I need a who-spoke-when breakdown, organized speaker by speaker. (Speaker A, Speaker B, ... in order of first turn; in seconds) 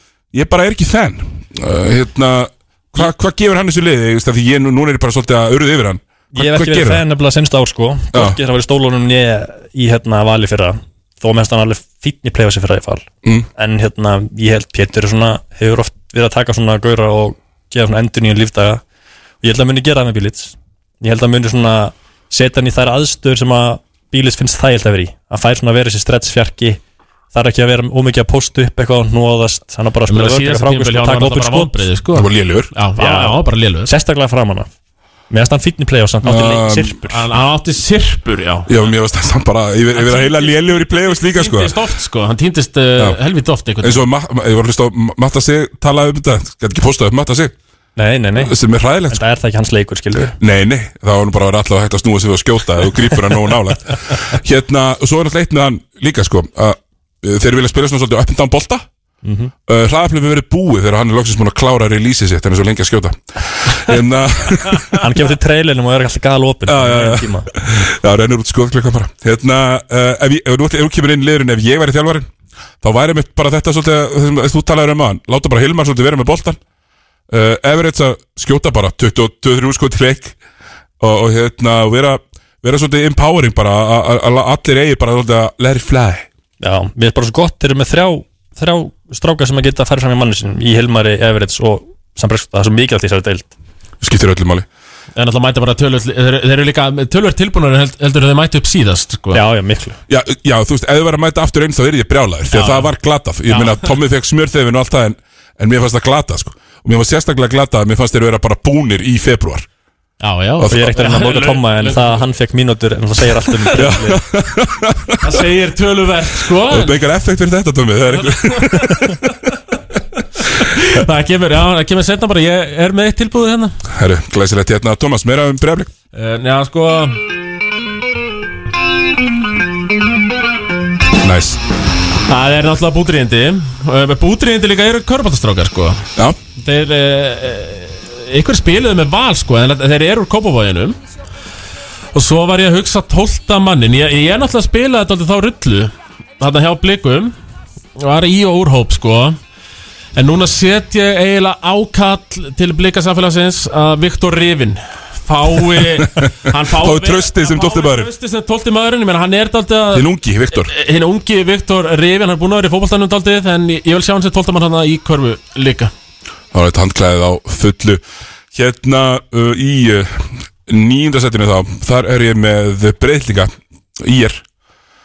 Speaker A: 0.3-7.0, 8.1-8.4, 32.1-32.7, 36.2-37.0, 38.7-41.7, 43.8-47.5, 48.4-49.2, 50.4-58.9, 59.7-65.0, 66.7-72.3, 72.8-76.6, 77.3-80.3, 81.0-86.3, 94.0-94.7, 100.1-109.7, 110.6-110.9, 113.7-115.2, 116.7-119.2, 123.9-125.9, 131.2-131.6, 156.1-158.1, 159.9-160.7, 166.5-168.0, 168.5-174.4
Speaker B: 6.3-18.8, 19.4-26.8, 27.3-31.8, 33.0-34.7, 35.3-37.2, 48.0-48.5, 49.1-50.4, 59.2-59.5, 65.0-67.5, 86.6-93.5, 99.3-100.0, 110.7-114.2
Speaker C: 30.1-33.9, 37.1-38.7, 39.9-44.0, 95.2-99.4, 102.5-102.9, 103.5-104.0, 110.2-112.2, 115.2-117.0, 118.2-119.1, 120.6-123.8, 126.1-127.2, 132.3-136.0, 136.6-141.0, 142.1-147.3, 148.0-149.4, 150.1-165.9